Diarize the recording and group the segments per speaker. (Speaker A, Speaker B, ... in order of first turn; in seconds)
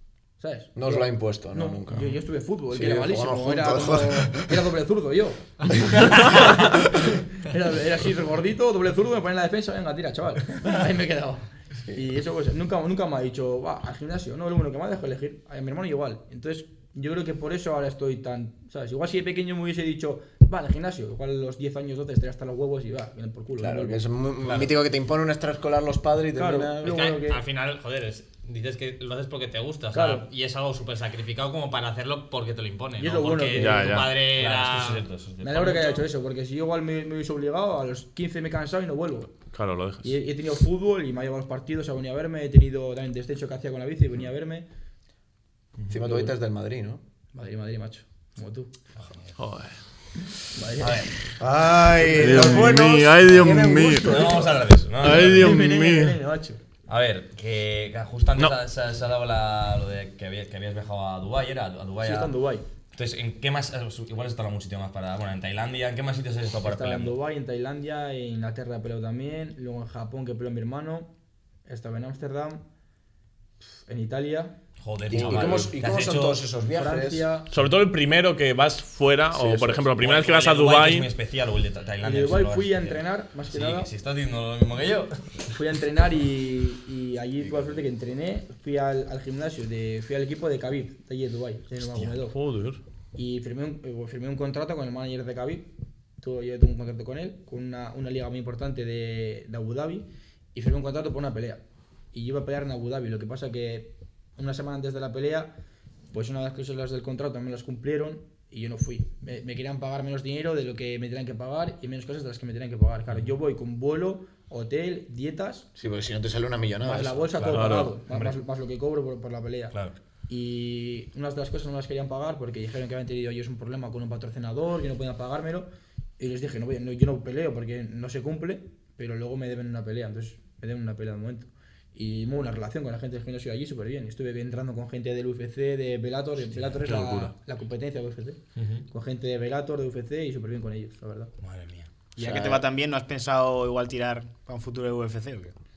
Speaker A: 0.4-24.0, 26.4-27.4, 29.9-30.2, 33.0-33.9, 35.4-39.3, 40.0-44.6, 45.9-46.3, 47.3-48.7, 50.5-51.3, 52.0-52.7, 55.2-56.6, 62.0-62.6, 66.6-71.1, 71.7-72.6, 73.8-74.5, 76.7-77.5, 82.0-83.9, 85.5-92.4, 93.1-95.7, 96.2-101.6, 102.1-105.5, 106.1-115.7, 116.8-119.8, 120.3-125.7, 126.2-141.3, 142.2-142.7
Speaker B: 0.7-4.5, 23.6-27.0, 45.9-47.0, 51.4-54.6, 75.1-77.3, 79.3-79.9, 115.8-117.7
Speaker C: 26.8-35.0
Speaker D: 33.5-34.1, 39.5-40.1, 49.4-49.8, 52.1-54.4, 55.0-56.1, 75.2-75.6, 77.5-81.1, 92.1-92.8, 117.5-117.9, 136.8-137.3
Speaker E: 34.1-36.0, 49.0-49.3, 50.8-51.1, 54.0-55.6, 56.9-62.3, 62.9-67.2, 74.8-76.4, 80.0-85.5, 118.1-118.3, 119.7-120.0, 138.6-138.8, 141.4-141.9
Speaker F: 142.2-145.5